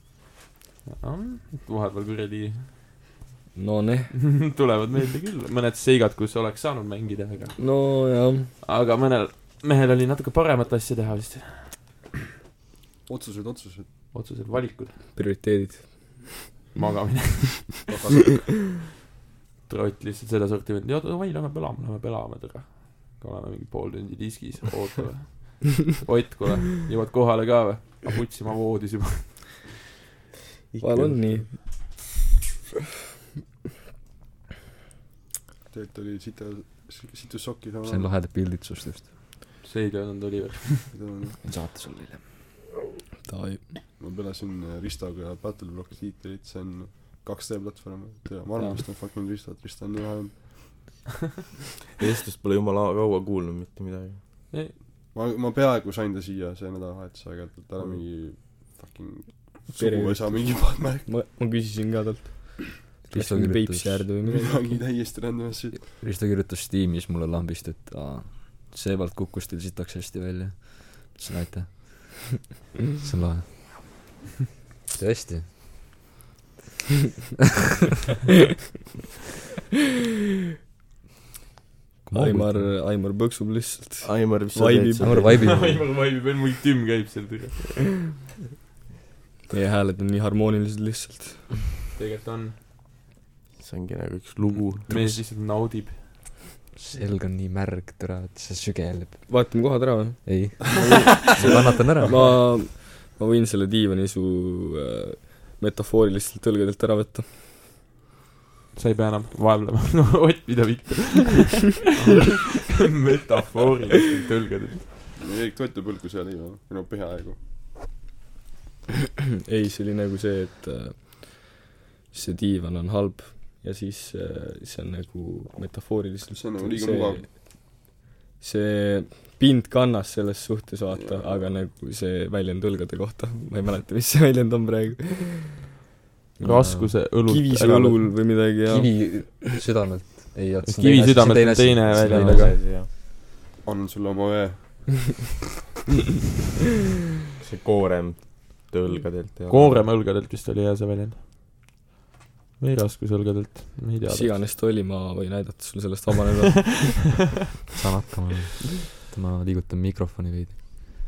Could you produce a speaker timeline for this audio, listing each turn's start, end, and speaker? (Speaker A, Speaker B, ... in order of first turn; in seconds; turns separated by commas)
Speaker A: 0.8-2.7, Speaker B: 3.5-4.1, Speaker A: 4.1-7.8, Speaker B: 7.6-8.5, Speaker A: 8.6-11.8, Speaker C: 13.1-13.9, Speaker A: 14.1-15.0, Speaker B: 15.1-16.3, Speaker A: 16.7-17.8, Speaker C: 17.9-18.4, Speaker A: 19.7-29.7, Speaker D: 30.7-31.5, Speaker B: 30.8-31.6, Speaker C: 35.7-38.1, Speaker E: 37.9-39.1, Speaker A: 39.6-40.9, Speaker C: 40.9-41.4, Speaker E: 41.5-42.2, Speaker B: 43.2-43.6, Speaker C: 44.0-50.8, Speaker D: 52.0-54.2, Speaker C: 55.1-61.2, Speaker B: 59.7-64.7, Speaker E: 63.1-64.1, Speaker C: 64.2-65.8, Speaker E: 65.7-72.4, Speaker E: 73.0-73.9, Speaker E: 74.9-75.8, Speaker E: 82.0-82.8, Speaker B: 82.1-85.5, Speaker D: 84.0-85.7, Speaker E: 85.0-85.9, Speaker A: 85.3-87.7, Speaker B: 89.5-91.6, Speaker A: 91.9-92.5, Speaker D: 93.6-95.0, Speaker A: 94.5-96.3, Speaker E: 94.9-95.2, Speaker E: 96.8-102.3, Speaker B: 99.3-107.3, Speaker C: 101.5-102.3, Speaker A: 108.7-114.8, Speaker C: 115.2-117.4, Speaker B: 119.5-127.3, Speaker C: 126.3-127.2, Speaker B: 128.4-135.5, Speaker C: 130.9-131.5, Speaker A: 136.4-138.1, Speaker E: 136.4-136.9, Speaker B: 137.2-139.1, Speaker E: 138.7-142.6, Speaker A: 140.6-142.6, Speaker D: 141.9-142.9, Speaker C: 143.6-145.0, Speaker D: 147.4-149.9, Speaker A: 149.5-151.2, Speaker A: 152.6-154.4, Speaker B: 154.1-156.8, Speaker A: 156.5-157.0, Speaker E: 157.8-160.6